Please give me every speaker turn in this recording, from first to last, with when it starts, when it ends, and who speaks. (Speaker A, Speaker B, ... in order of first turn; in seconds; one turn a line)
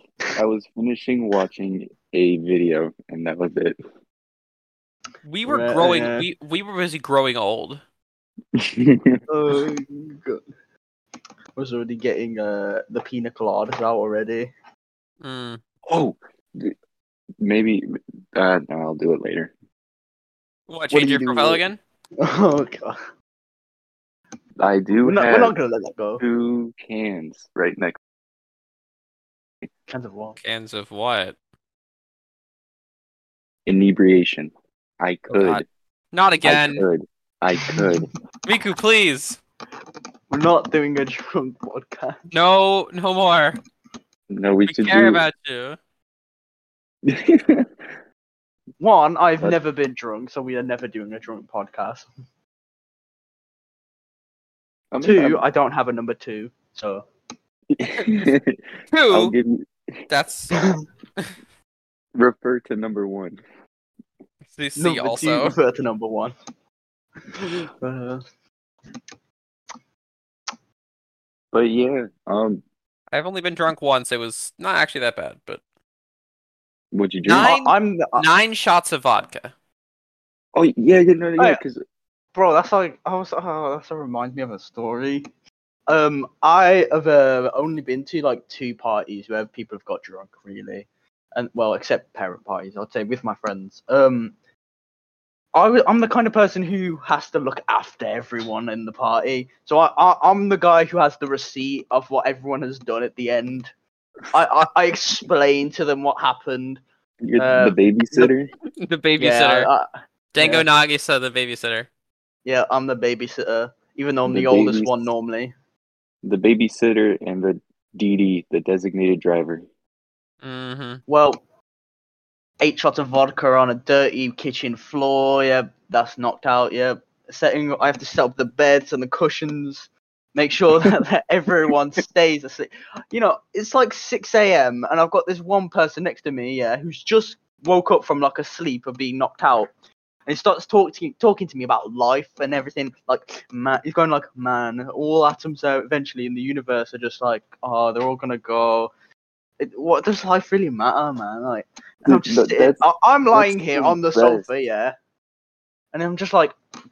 Speaker A: 0.3-3.8
Speaker B: 5.2-7.8
Speaker C: 5.5-6.2
Speaker A: 8.7-9.2
Speaker C: 9.3-10.4
Speaker C: 11.6-14.5
Speaker B: 15.2-15.6
Speaker A: 15.9-16.7
Speaker A: 17.4-17.8
Speaker A: 18.3-19.5
Speaker B: 20.7-21.8
Speaker C: 20.9-21.6
Speaker C: 22.2-23.0
Speaker A: 24.6-25.5
Speaker C: 25.0-26.2
Speaker A: 26.2-28.0
Speaker C: 29.9-30.4
Speaker B: 30.4-31.4
Speaker A: 33.6-35.6
Speaker B: 35.3-36.9
Speaker A: 36.4-38.1
Speaker C: 37.6-38.0
Speaker B: 38.5-39.4
Speaker C: 40.3-42.2
Speaker B: 42.3-43.6
Speaker A: 44.3-45.2
Speaker B: 44.7-45.8
Speaker A: 47.1-47.3
Speaker C: 48.8-52.0
Speaker A: 54.9-55.4
Speaker C: 55.0-57.0
Speaker A: 57.7-58.5
Speaker B: 58.0-58.2
Speaker B: 58.9-59.3
Speaker A: 59.1-59.6
Speaker B: 60.1-61.3
Speaker A: 62.1-63.4
Speaker B: 64.5-65.5
Speaker C: 64.8-66.3
Speaker C: 67.3-68.2
Speaker A: 71.5-72.6
Speaker B: 73.1-75.6
Speaker A: 76.9-77.5
Speaker B: 77.2-79.5
Speaker C: 77.4-78.2
Speaker A: 80.5-81.8
Speaker C: 81.4-81.6
Speaker C: 82.3-85.2
Speaker C: 85.9-94.3
Speaker C: 95.5-103.7
Speaker C: 104.3-106.8
Speaker A: 107.2-108.5
Speaker C: 107.4-108.3
Speaker B: 108.8-109.7
Speaker C: 109.2-110.7
Speaker B: 110.3-111.9
Speaker C: 112.4-115.5
Speaker A: 114.2-115.0
Speaker A: 116.2-119.6
Speaker B: 120.4-121.0
Speaker C: 121.1-121.4
Speaker C: 122.6-139.7
Speaker C: 140.3-148.9
Speaker C: 149.6-154.9
Speaker A: 152.0-154.4
Speaker C: 155.9-156.5